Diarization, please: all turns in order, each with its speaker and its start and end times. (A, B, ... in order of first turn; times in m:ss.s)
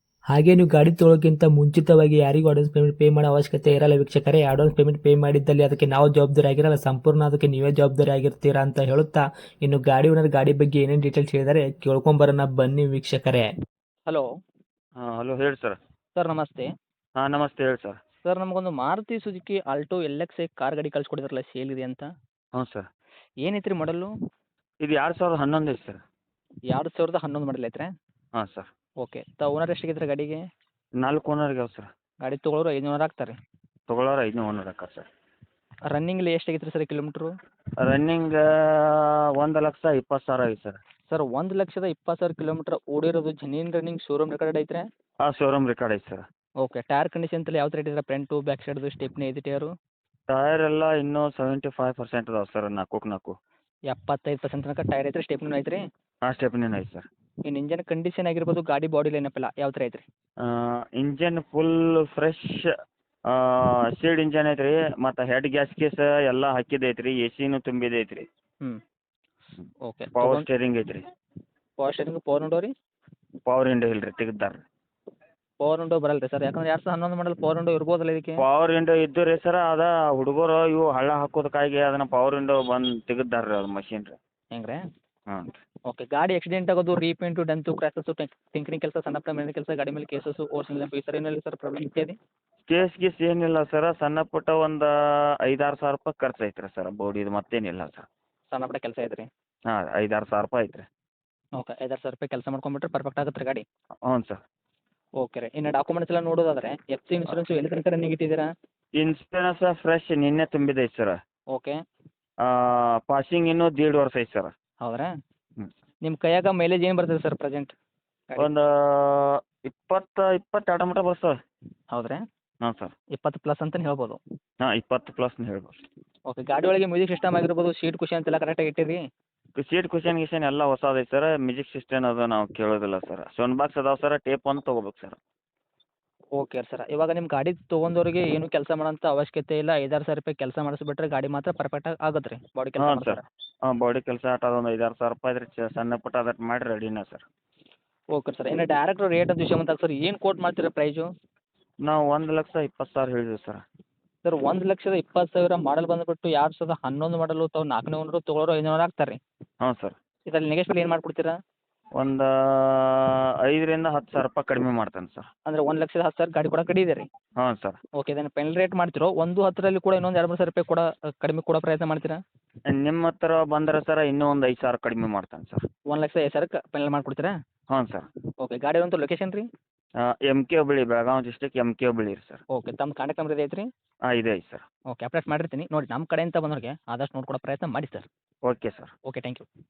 0:00.3-0:13.5 A
0:15.0-0:15.8 B
0:16.2-0:16.7 C
0:17.2-0:18.0 B
0:18.2-0:22.1 C
0:22.5-0:22.9 B
0:23.4-0:24.1 C
0:24.8-0:26.0 B
0:26.7-0:27.9 C
0:28.4-0:28.7 B
0:29.0-0:30.4 C
0:31.0-0:31.9 B
0:32.2-0:33.4 C
0:33.9-0:35.1 B
0:35.9-0:37.3 C
0:37.8-0:40.8 B
0:41.1-0:44.8 C
0:45.2-0:46.2 B
0:46.6-0:49.7 C
0:50.3-0:53.4 B
0:53.9-0:55.8 C
0:56.2-0:57.1 B
0:57.5-1:00.0 C
1:00.4-1:02.7 B
1:03.3-1:08.3 B
1:09.9-1:10.4 C
1:10.1-1:11.0 B
1:11.8-1:12.7 C
1:13.4-1:14.6 B
1:15.6-1:18.4 C
1:18.4-1:24.2 B
1:24.5-1:24.8 C
1:25.3-1:25.6 B
1:25.9-1:32.2 C
1:32.6-1:38.1 B
1:38.5-1:39.3 C
1:39.7-1:40.9 B
1:41.6-1:43.6 C
1:44.0-1:44.4 B
1:45.2-1:48.5 C
1:49.0-1:51.2 B
1:52.4-1:54.5 B
1:54.8-1:55.1 C
1:56.0-1:57.7 C
1:58.4-2:01.4 B
2:01.9-2:02.2 C
2:02.6-2:02.9 B
2:03.1-2:04.2 C
2:04.6-2:05.8 B
2:06.3-2:09.0 C
2:09.6-2:15.2 B
2:16.4-2:23.2 C
2:22.8-2:27.2 B
2:28.1-2:31.1 C
2:31.8-2:33.6 B
2:34.2-2:39.2 C
2:39.6-2:40.0 B
2:40.3-2:41.3 C
2:42.0-2:45.3 B
2:45.5-2:47.1 C
2:47.4-2:47.8 B
2:48.0-2:52.2 C
2:52.7-2:55.6 B
2:55.9-2:57.3 C
2:57.7-2:58.1 B
2:58.4-2:59.5 C
3:00.0-3:02.4 B
3:02.5-3:03.7 C
3:04.1-3:04.6 B
3:04.9-3:08.0 C
3:08.4-3:08.9 B
3:09.0-3:09.4 C